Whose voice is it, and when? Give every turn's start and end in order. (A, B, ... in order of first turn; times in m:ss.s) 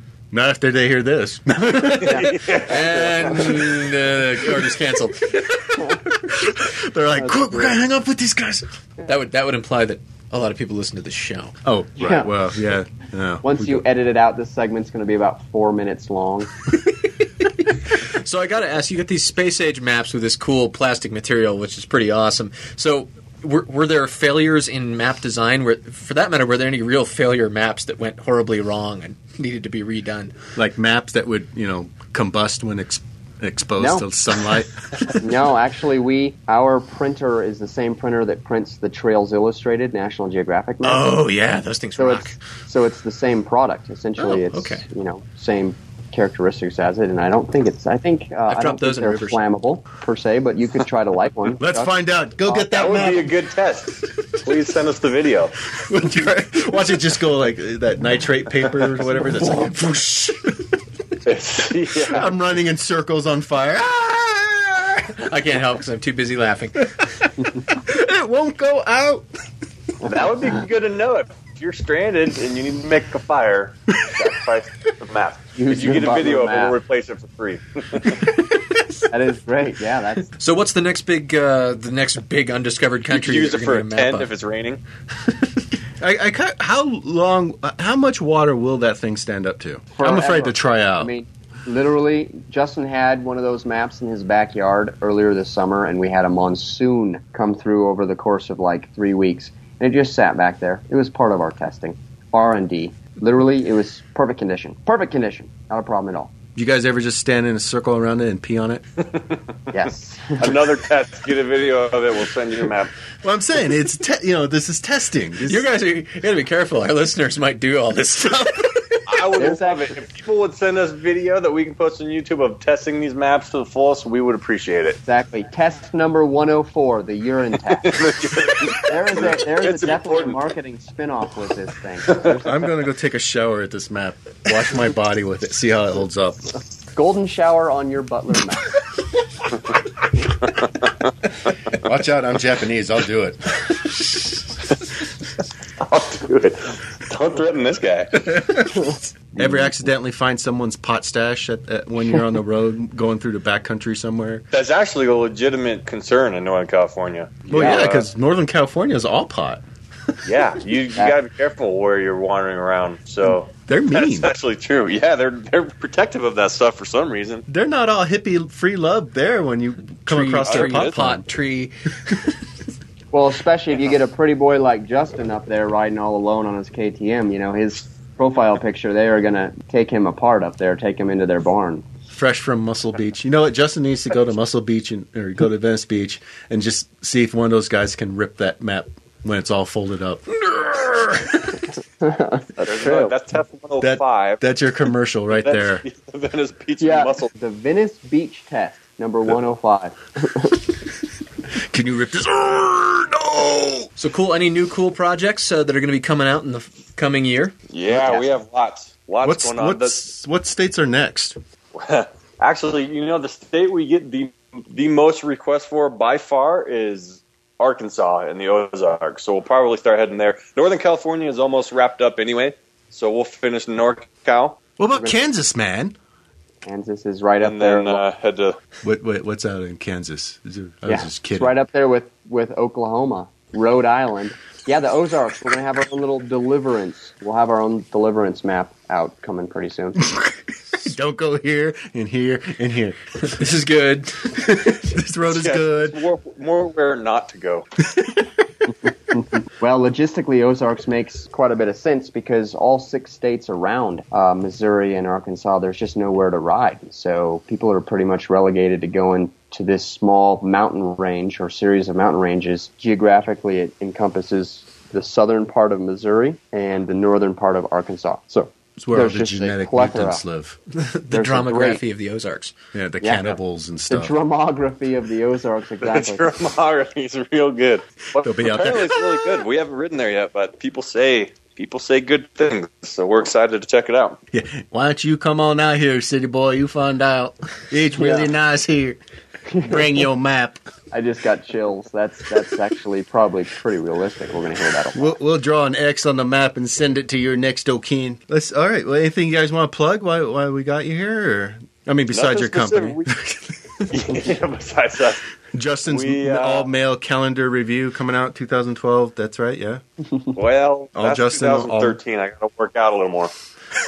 0:00.3-0:02.5 A
0:02.0-0:03.4 B
0:02.0-0:02.7 C
0:02.4-0:05.4 D
0:04.4-0:04.7 A
0:05.3-0:08.6 A
0:07.2-0:07.8 C
0:09.0-0:11.6 D
0:11.6-0:13.8 A
0:12.0-0:12.3 C
0:13.4-0:16.5 C
0:17.4-0:30.3 D
0:30.6-0:35.1 A
0:33.8-0:34.0 C
0:35.1-0:41.2 C
0:40.8-0:42.4 D
0:42.0-0:51.9 C
0:44.2-0:44.8 D
0:48.5-0:49.4 D
0:51.6-0:53.3 A
0:52.4-0:53.2 C
0:52.7-0:55.6 B
0:55.7-1:00.3 A
0:59.4-1:00.3 D
1:01.2-1:02.3 B
1:02.0-1:05.2 A
1:05.2-1:07.0 D
1:07.5-1:09.3 A
1:10.0-1:18.3 B
1:15.6-1:16.8 C
1:19.1-1:20.3 C
1:20.4-1:24.3 D
1:23.1-1:24.8 B
1:26.0-1:31.1 A
1:30.0-1:46.3 C
1:46.6-1:48.8 A
1:49.7-1:50.7 C
1:50.4-1:52.9 B
1:53.2-1:55.6 A
1:55.4-1:59.2 D
1:59.1-2:05.0 B
1:59.4-2:00.0 C
2:05.0-2:08.1 C
2:07.8-2:10.4 B
2:08.7-2:12.5 C
2:12.4-2:16.5 A
2:16.9-2:18.7 C
2:21.7-2:23.8 A
2:25.8-2:28.5 B
2:28.3-2:28.8 A
2:29.4-2:34.4 A
2:34.5-2:38.0 B
2:37.5-2:39.6 A
2:37.5-2:37.9 C
2:40.2-2:47.4 B
2:43.6-2:44.3 A
2:47.5-2:51.2 A
2:50.0-2:52.1 D
2:50.4-2:51.0 B
2:53.1-3:01.8 C
3:02.1-3:11.5 A
3:12.0-3:13.1 C
3:12.6-3:14.4 B
3:13.8-3:15.8 A
3:15.3-3:17.3 B
3:16.8-3:20.7 C
3:21.7-3:23.9 A
3:24.0-3:27.6 D
3:27.7-3:30.0 B
3:29.2-3:31.4 A
3:31.7-3:44.6 B
3:44.8-3:46.0 A
3:46.6-3:48.0 C
3:47.4-3:48.6 B
3:48.8-3:51.6 A
3:50.9-4:00.0 C
4:00.0-4:03.5 A
4:03.2-4:04.9 D
4:04.8-4:06.0 A
4:05.3-4:07.7 B
4:08.0-4:08.2 A
4:09.6-4:30.2 C
4:28.8-4:30.6 A
4:30.7-4:32.5 D
4:31.1-4:31.8 C
4:32.7-4:34.2 A
4:33.0-4:36.3 C
4:35.8-4:44.2 B
4:38.2-4:39.1 A
4:44.3-4:49.0 A
4:47.9-4:48.3 C
4:49.5-4:49.8 C
4:49.6-4:50.6 A
4:50.9-4:55.1 C
4:54.9-5:03.9 A
5:02.1-5:03.1 B
5:03.9-5:05.2 B
5:05.5-5:09.8 A
5:05.9-5:06.7 B
5:10.3-5:13.3 B
5:11.0-5:12.0 A